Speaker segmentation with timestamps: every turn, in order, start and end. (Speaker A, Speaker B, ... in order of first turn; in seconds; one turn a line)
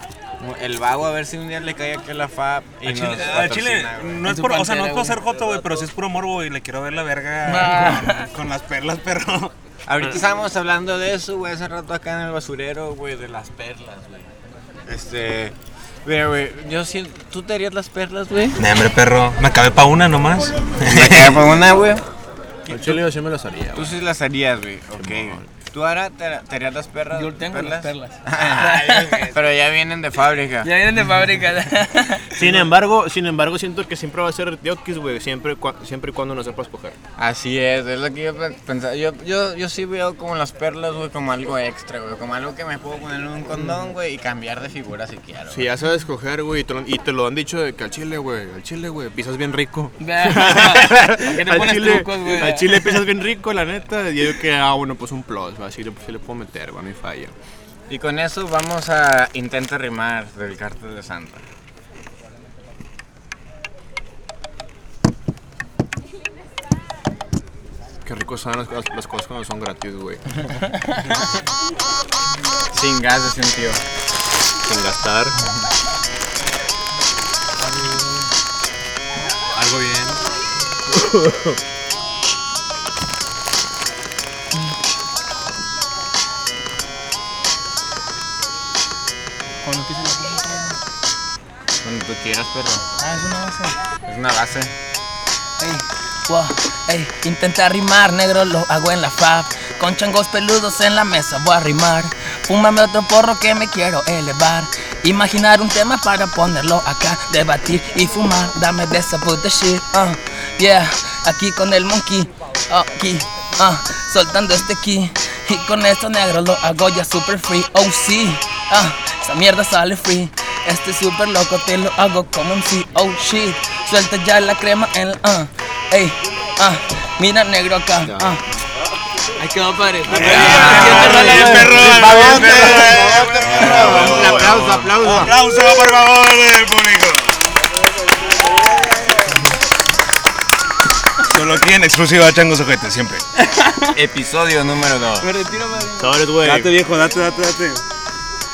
Speaker A: 0.4-4.3
Speaker B: 2.9-9.5
Speaker C: 4.2-5.2
Speaker C: 7.5-8.3
Speaker A: 9.9-14.3
Speaker A: 14.9-18.7
Speaker B: 18.6-21.5
Speaker A: 20.9-22.1
Speaker B: 22.6-23.0
Speaker D: 22.7-23.9
Speaker A: 23.7-30.7
Speaker D: 25.0-25.5
Speaker C: 27.1-29.4
Speaker C: 30.6-32.4
Speaker D: 32.3-37.0
Speaker A: 37.2-45.7
Speaker D: 45.5-57.4
Speaker C: 50.0-53.0
Speaker A: 57.9-61.5
Speaker D: 68.0-70.8
Speaker A: 72.7-73.8
Speaker D: 74.6-75.4
Speaker C: 77.7-78.0
Speaker B: 79.5-80.2
Speaker D: 80.9-81.6
Speaker C: 89.6-90.8
Speaker A: 91.8-92.8
Speaker C: 93.0-93.8
Speaker A: 94.0-94.7
Speaker C: 95.6-128.4
Speaker D: 128.1-128.3
Speaker C: 129.4-132.7
Speaker B: 130.1-137.4
Speaker D: 130.1-135.3
Speaker A: 130.3-135.4
Speaker B: 141.2-143.2
Speaker C: 143.5-144.0
Speaker A: 143.9-145.3
Speaker C: 145.2-146.3
Speaker D: 146.0-146.8
Speaker B: 146.4-147.8